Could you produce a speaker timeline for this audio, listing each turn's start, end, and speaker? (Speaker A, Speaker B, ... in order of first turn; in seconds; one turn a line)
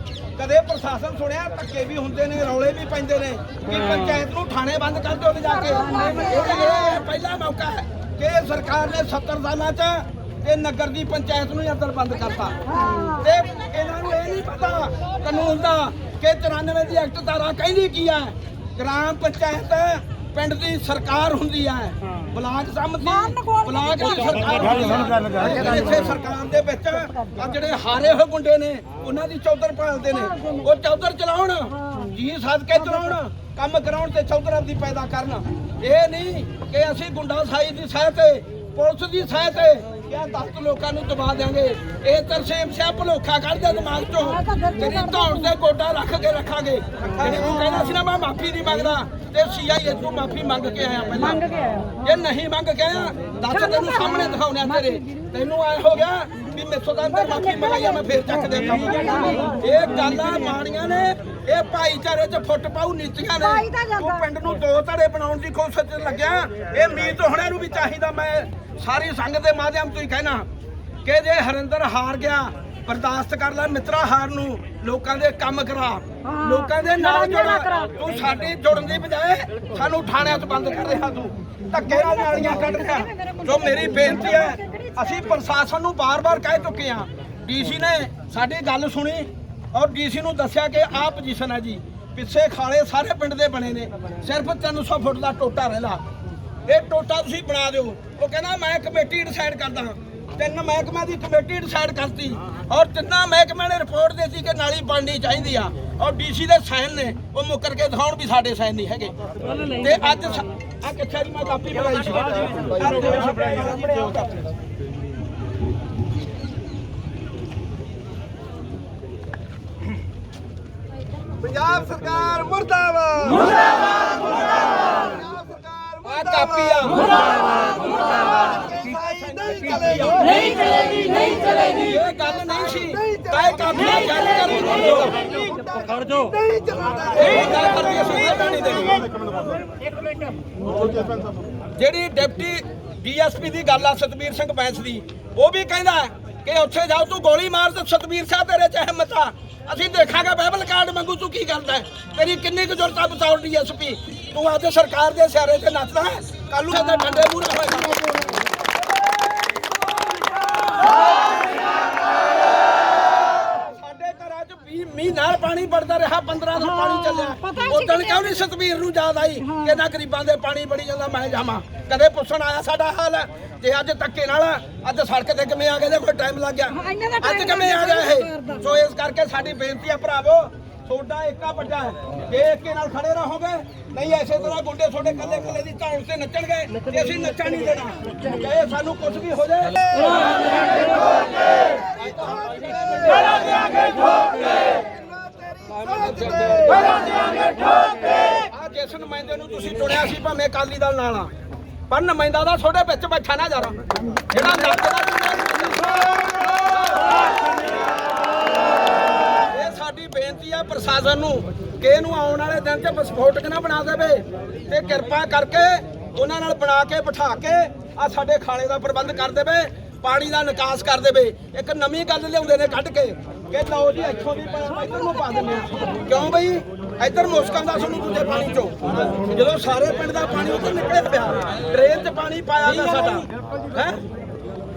Speaker A: 0.4-12.6
Speaker B: 5.9-6.4
Speaker B: 12.7-13.2
Speaker A: 13.2-51.5
Speaker B: 23.3-24.6
Speaker B: 44.4-44.9
Speaker A: 52.0-70.5
Speaker B: 63.5-64.0
Speaker A: 71.0-96.0
Speaker B: 76.3-77.9
Speaker B: 82.7-83.8
Speaker B: 84.5-85.0
Speaker A: 96.7-109.1
Speaker A: 109.7-114.3
Speaker B: 121.5-123.4
Speaker B: 125.2-126.0
Speaker A: 126.0-127.2
Speaker B: 128.5-130.2
Speaker A: 129.0-130.5
Speaker A: 131.5-135.3
Speaker B: 135.3-137.1
Speaker A: 137.1-139.1
Speaker A: 141.8-158.3
Speaker A: 160.1-161.0
Speaker A: 163.3-190.9
Speaker B: 167.1-167.7
Speaker B: 176.8-178.5
Speaker A: 191.9-194.2
Speaker B: 194.9-195.9
Speaker A: 195.8-201.3
Speaker A: 201.9-207.2
Speaker A: 209.4-234.0